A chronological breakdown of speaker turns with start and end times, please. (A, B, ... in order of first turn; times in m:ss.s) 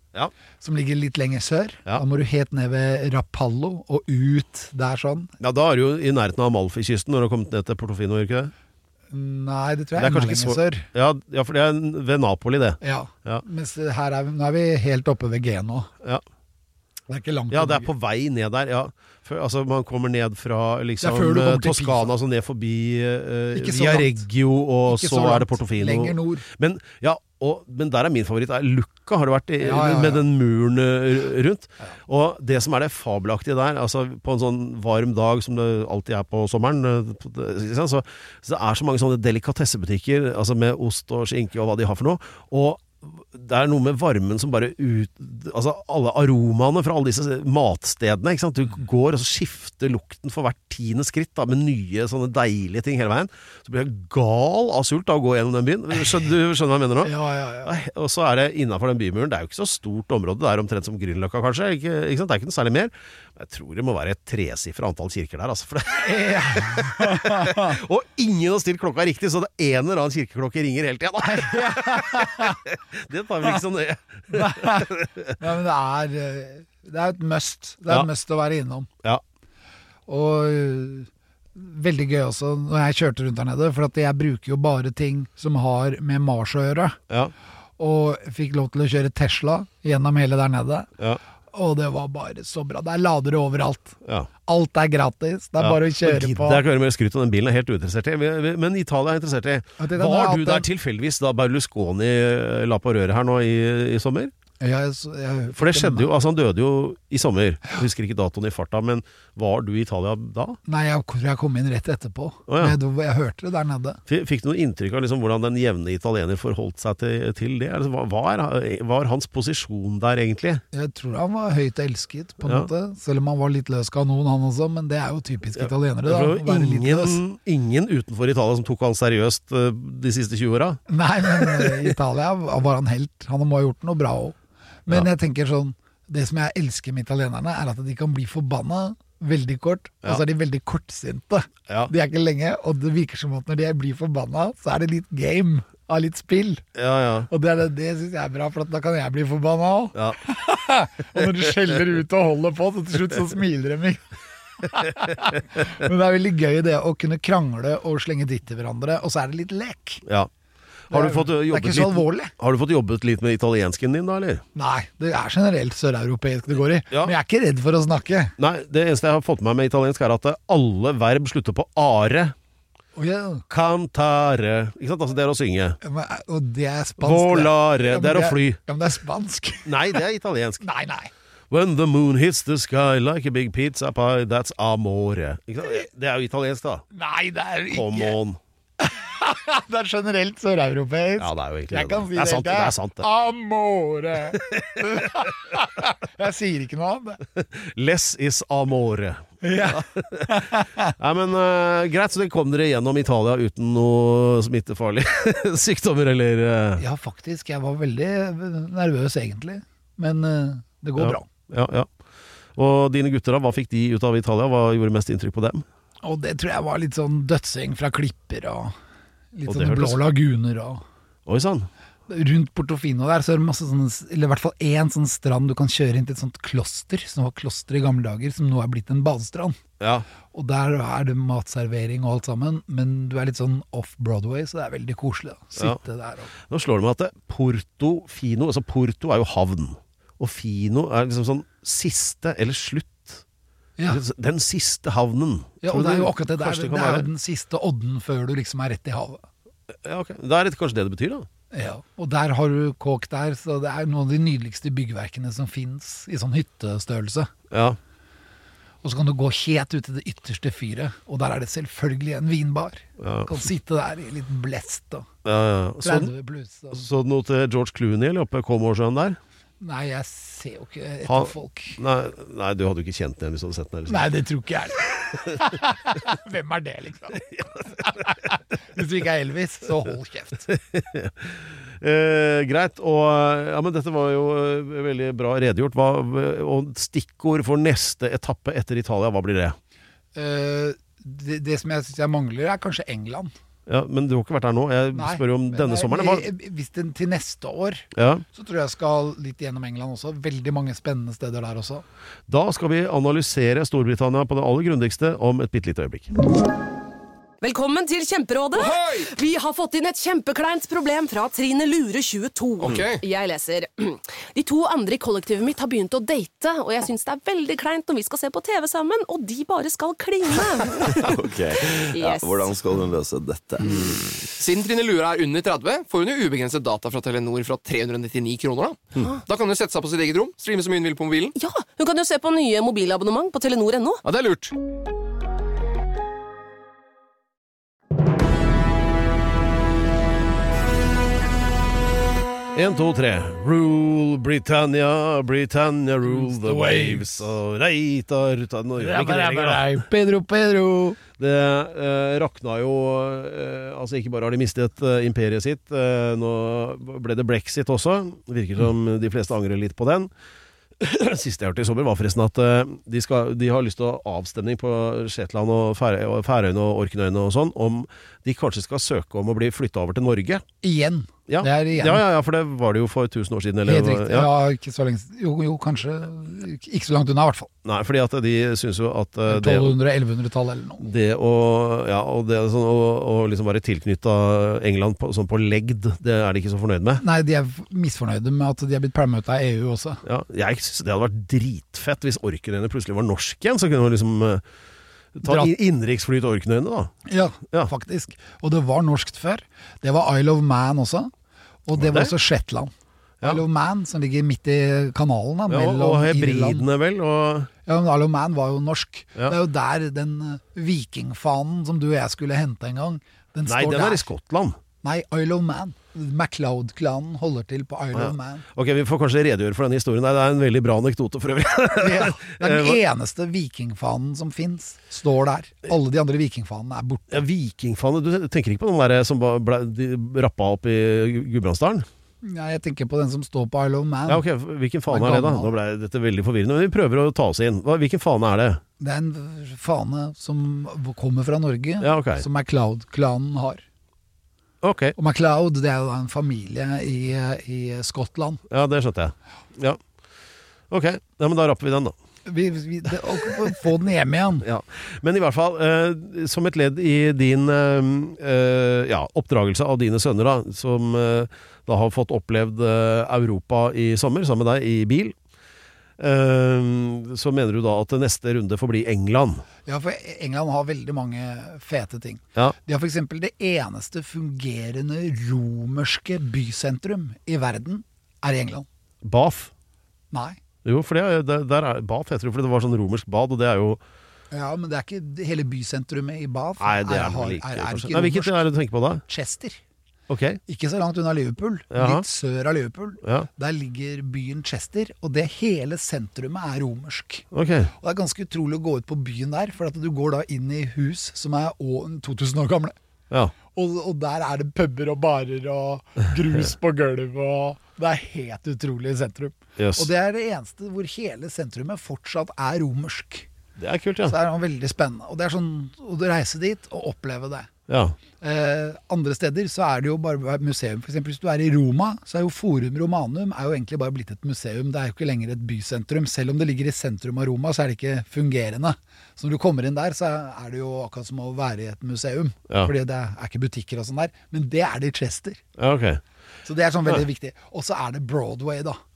0:00.6-0:05.3 A
0:05.4-0:08.5 B
0:09.1-0:10.9 A
0:10.0-0:13.4 B
0:12.8-0:15.9 A
0:17.1-0:17.9 A
0:17.5-1:15.4 B
0:21.0-0:22.1 A
0:23.5-0:24.3 A
0:24.9-0:26.5 A
0:29.6-0:30.3 A
0:57.0-0:57.8 A
1:06.0-1:07.8 A
1:11.2-1:12.6 A
1:14.3-1:18.9 A
1:20.1-1:27.0 A
1:27.8-1:30.9 A
1:31.5-1:36.6 A
1:35.6-1:44.3 B
1:39.8-1:40.7 A
1:44.6-1:46.1 A
1:45.6-1:50.6 B
1:50.7-1:54.0 A
1:52.5-1:52.8 B
1:54.1-2:00.6 B
2:00.7-2:07.2 A
2:05.6-2:11.9 B
2:10.9-2:26.6 A
2:26.8-2:27.3 B
2:27.3-2:34.0 A
2:31.2-2:31.4 B
2:34.6-2:40.0 A
2:40.9-2:42.3 A
2:40.9-2:44.4 B
2:44.6-2:48.4 A
2:48.4-2:52.4 B
2:53.0-2:53.4 A
2:53.5-2:55.8 B
2:55.8-3:00.0 A
2:57.0-2:58.6 B
2:59.6-3:00.6 B
3:00.6-3:01.1 A
3:01.5-3:06.8 B
3:06.9-3:08.2 A
3:07.7-3:08.4 B
3:08.8-3:17.2 A
3:11.2-3:13.1 B
3:14.3-3:15.1 B
3:17.4-3:26.8 B
3:19.4-3:20.9 A
3:26.8-3:31.3 A
3:31.0-3:31.9 B
3:32.6-3:35.6 B
3:36.0-3:38.7 A
3:39.3-3:40.8 A
3:39.5-3:40.0 B
3:41.3-3:41.7 B
3:42.1-3:49.6 A
3:49.8-3:50.1 B
3:50.3-3:56.3 A
3:56.4-4:03.2 B
4:03.9-4:07.1 B
4:05.6-4:09.2 A
4:09.8-4:11.3 B
4:11.5-4:17.3 A
4:17.5-4:17.8 B
4:18.8-4:25.1 A
4:23.0-4:23.3 B
4:25.2-4:26.1 B
4:25.8-4:26.8 A
4:26.7-4:29.2 B
4:29.6-4:31.8 A
4:31.1-4:34.1 B
4:33.9-4:40.5 A
4:40.5-4:49.6 B
4:50.2-4:53.3 A
4:53.7-4:56.3 B
4:54.9-5:01.8 A
4:58.0-4:58.2 B
5:02.3-5:06.1 B
5:07.4-5:21.2 C
5:08.6-5:09.1 D
5:12.6-5:13.0 D
5:21.0-5:24.3 E
5:21.7-5:22.5 C
5:24.4-5:31.3 D
5:31.4-5:34.0 C
5:34.0-5:34.5 D
5:42.5-5:49.7 B
5:46.0-5:47.3 A
5:48.8-5:51.0 A
5:51.2-6:00.1 B
6:00.8-6:10.4 B
6:10.6-6:12.0 A
6:11.3-6:14.3 B
6:13.6-6:17.5 A
6:17.6-6:19.8 B
6:19.3-6:20.9 A
6:20.8-6:27.0 B
6:27.0-6:30.0 A
6:30.0-6:34.4 B
6:35.2-6:36.9 B
6:35.2-6:35.5 A
6:37.1-6:41.1 A
6:41.7-6:42.7 A
6:41.8-6:42.1 B
6:43.2-6:46.7 A
6:45.5-6:47.5 B
6:47.7-6:54.1 A
6:53.5-6:54.6 B
6:54.8-6:58.5 A
6:57.9-7:02.8 B
7:01.8-7:07.2 A
7:07.1-7:11.9 B
7:12.2-7:14.2 A
7:14.1-7:18.6 B
7:14.9-7:15.5 A
7:18.8-7:23.6 A
7:21.8-7:22.2 B
7:24.6-7:25.0 B
7:25.0-7:28.4 A
7:28.5-7:29.8 B
7:30.7-7:31.9 B
7:32.3-7:34.5 A
7:34.4-7:45.2 B
7:46.0-7:49.4 B
7:49.7-7:58.7 A
7:59.0-7:59.5 B
8:00.1-8:00.4 A
8:00.6-8:03.8 B
8:04.3-8:08.5 A
8:06.6-8:09.0 B
8:09.1-8:09.6 A
8:10.1-8:10.4 B
8:10.5-8:17.3 A
8:11.7-8:12.0 B
8:13.0-8:13.3 B
8:17.3-8:17.7 B
8:17.8-8:22.8 A
8:23.5-8:33.3 A
8:29.6-8:29.9 B
8:33.6-8:34.2 B
8:34.1-8:37.5 A
8:37.7-8:38.0 B
8:38.2-8:55.4 A
8:55.6-8:56.0 B
8:56.4-8:58.8 A